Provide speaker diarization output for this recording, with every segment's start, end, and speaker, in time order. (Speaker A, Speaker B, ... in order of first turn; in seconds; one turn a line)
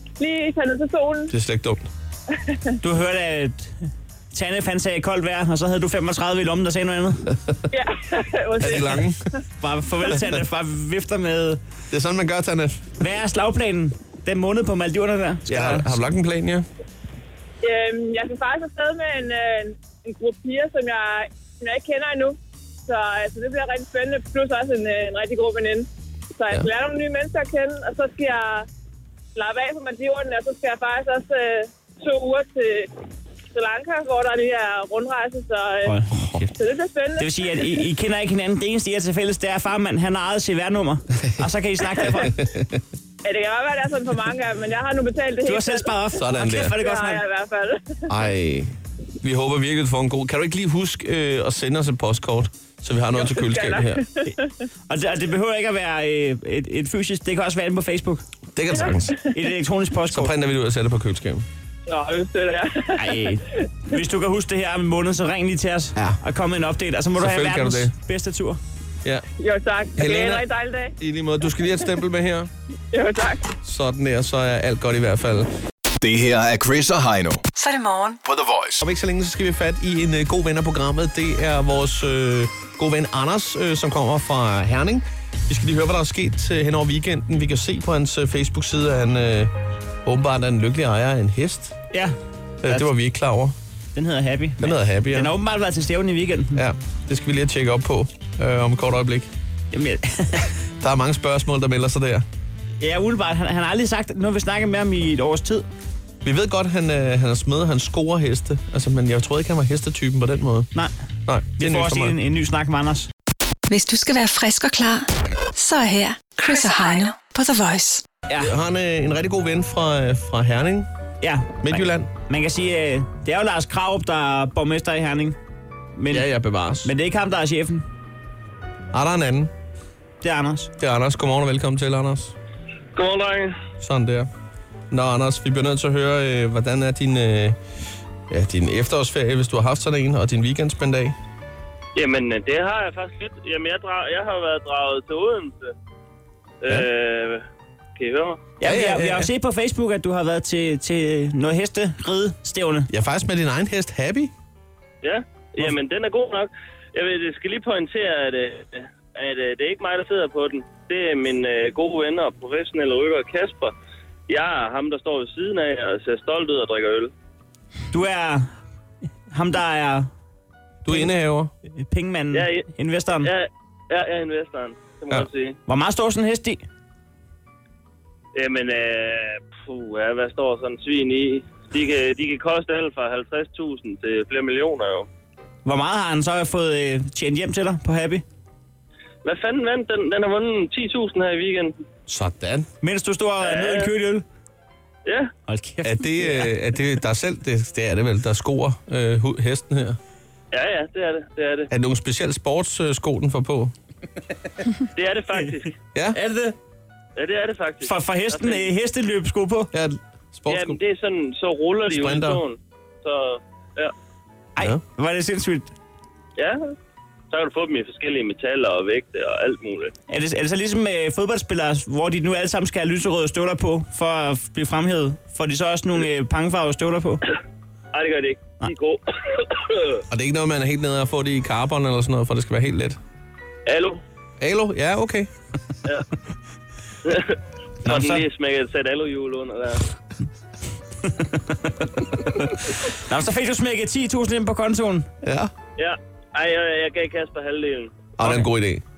Speaker A: 0.2-1.3
Speaker B: 1.3-1.9
Speaker A: 2.3-2.8
Speaker C: 2.8-7.3
Speaker A: 7.7-9.3
Speaker B: 8.6-9.2
Speaker C: 9.6-11.6
Speaker B: 11.9-12.9
Speaker C: 13.0-15.9
Speaker B: 15.5-16.6
Speaker A: 17.6-22.4
Speaker A: 22.9-28.7
Speaker A: 29.3-32.9
Speaker A: 33.5-35.9
Speaker C: 35.8-36.5
Speaker A: 36.5-37.8
Speaker C: 37.2-42.3
Speaker B: 42.0-42.8
Speaker A: 43.2-46.0
Speaker C: 45.4-47.2
Speaker B: 46.1-46.7
Speaker A: 46.6-48.1
Speaker B: 48.1-54.0
Speaker A: 53.1-54.5
Speaker C: 54.9-58.2
Speaker B: 58.5-59.2
Speaker C: 59.3-60.3
Speaker B: 60.1-61.5
Speaker A: 61.9-63.6
Speaker C: 62.9-68.6
Speaker B: 67.2-67.9
Speaker A: 69.4-70.9
Speaker B: 70.0-70.4
Speaker B: 71.0-72.5
Speaker A: 72.9-73.5
Speaker B: 73.6-75.5
Speaker D: 76.0-77.4
Speaker E: 77.5-78.2
Speaker D: 78.2-78.8
Speaker B: 78.8-89.5
Speaker B: 90.0-91.8
Speaker B: 92.6-93.5
Speaker C: 93.9-96.6
Speaker B: 94.6-95.3
Speaker B: 96.5-99.3
Speaker C: 99.7-100.5
Speaker B: 100.8-102.2
Speaker C: 102.8-105.6
Speaker B: 106.2-110.7
Speaker B: 111.3-112.2
Speaker C: 111.5-113.1
Speaker E: 113.7-118.0
Speaker B: 118.4-120.9
Speaker C: 121.2-125.4
Speaker B: 121.6-122.1
Speaker C: 126.0-126.3
Speaker B: 126.1-126.9
Speaker C: 126.8-127.8
Speaker B: 128.9-129.5
Speaker C: 130.2-130.7
Speaker B: 130.8-132.3
Speaker F: 132.9-133.6
Speaker B: 133.8-134.3
Speaker B: 134.9-137.6
Speaker B: 138.3-141.2
Speaker F: 141.9-145.7
Speaker F: 146.6-148.5
Speaker C: 148.6-152.9
Speaker B: 148.6-149.3
Speaker B: 152.9-154.3
Speaker F: 155.0-163.7
Speaker F: 164.3-167.1
Speaker C: 167.9-168.5
Speaker C: 169.3-170.1
Speaker B: 170.8-171.5
Speaker C: 171.7-173.3
Speaker F: 172.3-172.7
Speaker F: 173.2-175.6
Speaker C: 175.7-176.6
Speaker F: 178.3-185.1
Speaker C: 185.6-188.2
Speaker F: 189.2-191.7
Speaker B: 192.1-192.7
Speaker C: 192.8-194.2
Speaker F: 193.4-193.9
Speaker F: 195.0-195.3
Speaker C: 195.5-196.5
Speaker B: 195.8-200.0
Speaker F: 200.5-201.7
Speaker B: 201.7-203.7
Speaker F: 204.9-205.8
Speaker B: 205.9-206.2
Speaker C: 206.1-206.5
Speaker F: 207.2-208.7
Speaker C: 207.8-209.7
Speaker B: 209.7-210.8
Speaker F: 210.5-213.9
Speaker B: 211.9-212.4
Speaker C: 214.6-215.7
Speaker F: 216.3-216.7
Speaker F: 217.3-219.9
Speaker C: 220.1-227.2
Speaker F: 227.9-230.0
Speaker B: 230.1-233.0
Speaker F: 233.7-234.0
Speaker B: 234.4-235.3
Speaker F: 237.0-239.9
Speaker C: 237.9-238.1
Speaker C: 241.0-245.1
Speaker B: 245.2-245.5
Speaker F: 245.8-248.1
Speaker B: 248.2-248.8
Speaker C: 248.2-248.5